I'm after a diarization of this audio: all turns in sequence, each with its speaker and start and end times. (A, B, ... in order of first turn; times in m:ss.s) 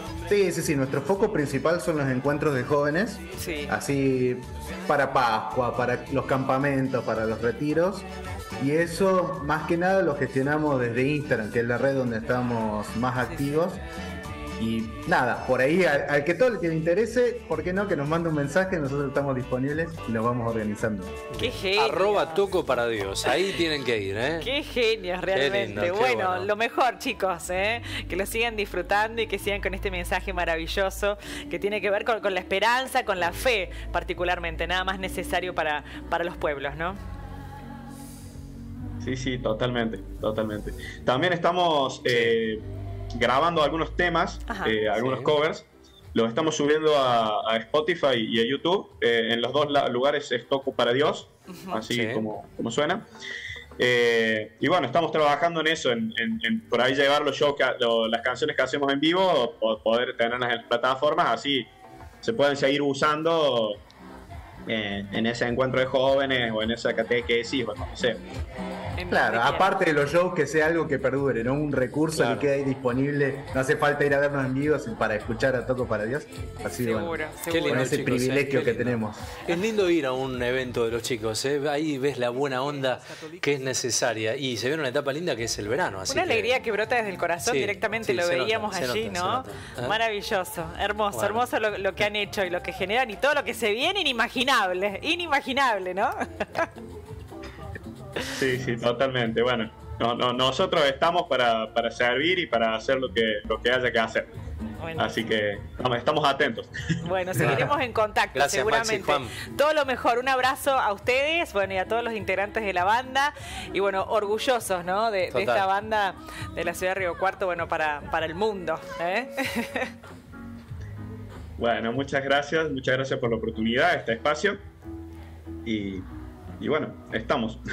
0:00.3-0:08.1 A
0:03.4-0:03.7 B
0:08.6-0:13.8 A
0:14.6-0:21.2 A
0:21.3-0:24.5 C
0:21.4-0:22.4 B
0:24.4-0:37.0 B
0:25.3-0:26.5 C
0:39.0-0:42.6 D
0:42.1-0:42.4 C
0:43.2-0:53.0 D
0:44.4-0:44.9 B
0:45.0-0:45.3 C
0:51.5-0:51.8 B
0:51.9-0:52.2 C
0:53.8-1:01.7 D
1:02.2-1:03.8 D
1:04.7-1:08.2 D
1:09.0-1:09.7 B
1:09.1-1:19.2 A
1:12.2-1:12.4 C
1:16.8-1:17.9 B
1:17.5-1:26.5 C
1:26.1-1:36.7 B
1:27.4-1:30.0 C
1:31.1-1:31.4 C
1:38.4-1:44.3 D
1:44.8-1:45.4 B
1:45.0-1:46.7 D
1:47.0-1:59.9 B
1:47.4-1:47.8 C
1:48.3-1:49.4 C
1:55.3-1:55.7 C
2:01.6-2:04.6 D
2:05.7-2:06.1 D
2:06.6-2:07.6 D